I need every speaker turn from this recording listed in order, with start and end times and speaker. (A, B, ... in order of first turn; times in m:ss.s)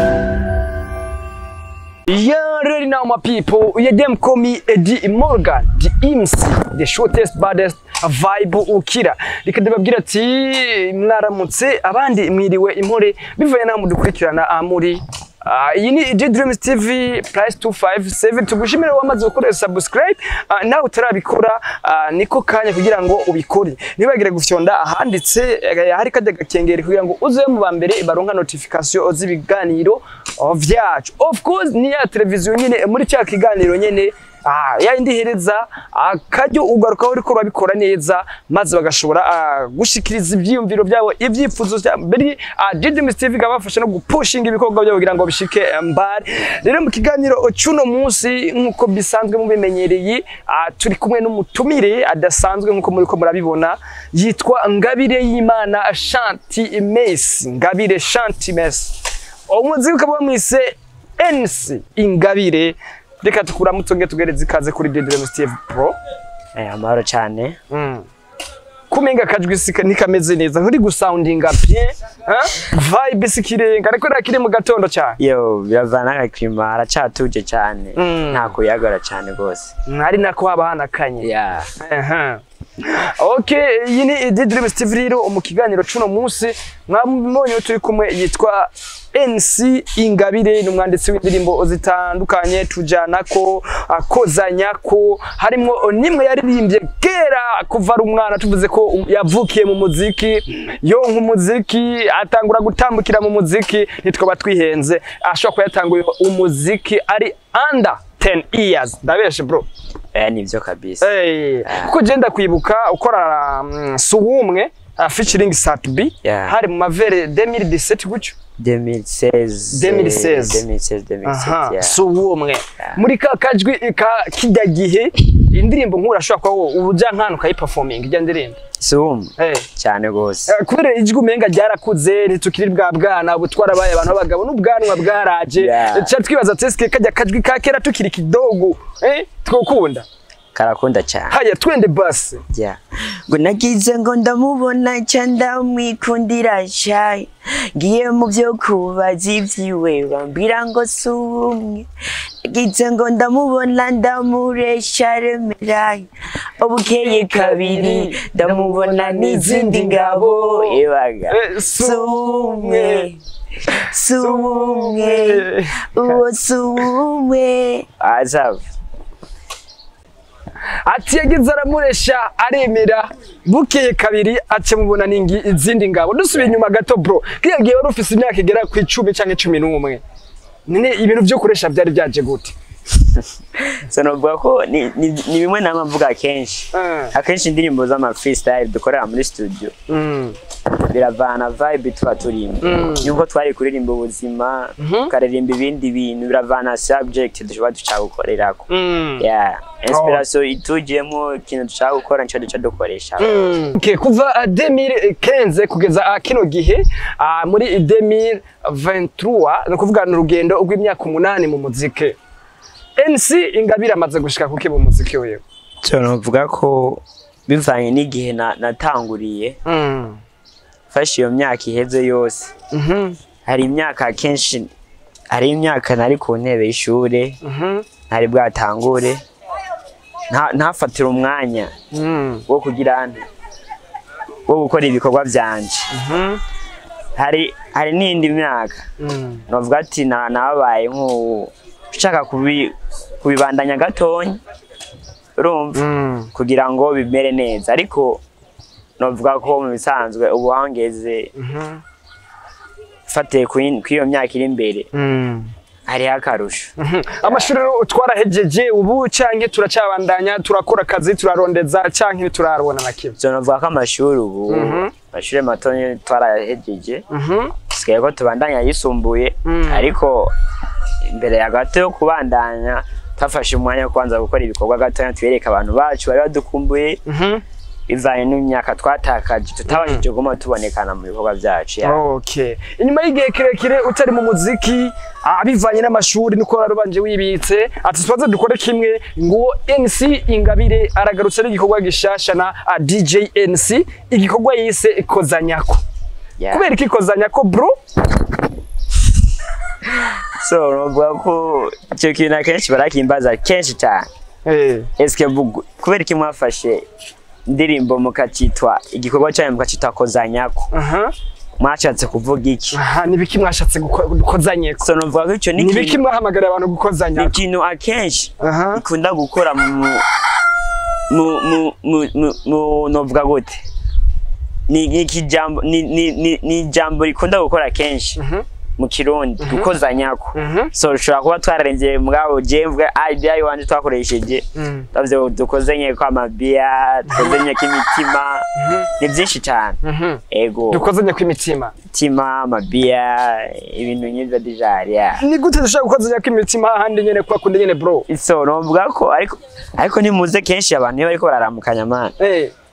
0:02.1-1:06.0 A
1:06.6-1:07.6 B
1:07.7-1:08.1 A
1:08.9-1:15.2 A
1:15.2-1:19.7 B
1:18.0-1:18.5 A
1:19.9-1:49.7 A
1:21.2-1:21.7 B
1:50.1-1:51.1 B
1:51.0-1:58.4 A
1:51.6-1:52.0 B
1:56.2-1:56.6 B
1:58.6-2:02.0 B
1:59.7-2:00.6 A
2:01.2-2:08.6 A
2:08.8-2:10.6 B
2:09.4-2:09.7 A
2:10.5-2:20.1 A
2:15.6-2:16.1 B
2:20.6-2:21.4 B
2:21.3-2:22.4 A
2:22.5-2:31.9 B
2:32.4-2:43.2 B
2:37.0-2:43.1 A
2:43.7-2:48.6 B
2:44.1-2:46.2 A
2:50.8-3:00.0 A
3:00.7-3:02.6 A
3:03.1-3:09.7 B
3:06.7-3:07.1 A
3:09.9-3:10.4 A
3:10.8-3:18.7 B
3:12.6-3:13.1 A
3:14.8-3:15.1 A
3:18.7-3:19.3 A
3:19.2-3:23.6 B
3:19.9-3:20.2 A
3:23.2-3:32.2 A
3:33.0-3:35.4 A
3:35.8-3:39.6 B
3:39.7-3:40.2 A
3:40.9-3:42.5 B
3:42.7-3:43.2 A
3:43.5-3:44.7 B
3:45.3-3:47.4 B
3:47.4-3:47.9 A
3:48.1-3:49.2 B
3:50.3-3:51.7 B
3:51.9-3:52.5 A
3:52.5-3:53.2 B
3:54.5-3:55.9 B
3:55.9-3:56.4 A
3:57.2-3:58.8 B
3:59.0-3:59.4 A
3:59.5-4:04.4 B
4:05.4-4:08.2 B
4:05.8-4:06.3 A
4:09.0-4:11.3 B
4:11.4-4:11.8 A
4:13.1-4:14.9 B
4:14.9-4:15.5 A
4:15.9-4:17.5 B
4:16.8-4:23.2 A
4:23.2-4:27.0 B
4:24.5-4:24.9 A
4:27.1-4:27.5 A
4:27.7-4:30.3 B
4:29.4-4:29.9 A
4:31.1-4:37.0 B
4:37.1-4:37.4 A
4:37.9-4:42.0 B
4:39.7-4:40.0 A
4:41.8-4:55.8 A
4:56.4-4:56.7 B
4:56.5-4:57.7 A
4:59.9-5:04.1 B
5:04.5-5:04.9 A
5:05.0-5:06.8 B
5:07.5-5:10.7 B
5:10.7-5:11.1 A
5:11.6-5:12.8 B
5:12.7-5:14.9 A
5:14.8-5:16.0 B
5:15.6-5:17.4 A
5:17.2-5:20.0 B
5:18.4-5:18.8 A
5:21.1-5:23.6 B
5:24.7-5:28.2 B
5:28.2-5:28.4 A
5:28.8-5:38.5 B
5:29.4-5:29.7 A
5:30.4-5:30.7 A
5:34.6-5:34.9 A
5:37.1-5:37.4 A
5:38.6-5:38.9 A
5:39.0-5:39.8 B
5:39.8-5:41.8 A
5:40.3-5:40.9 B
5:41.9-5:45.2 B
5:45.2-5:48.1 A
5:48.1-5:52.1 B
5:52.2-5:52.5 A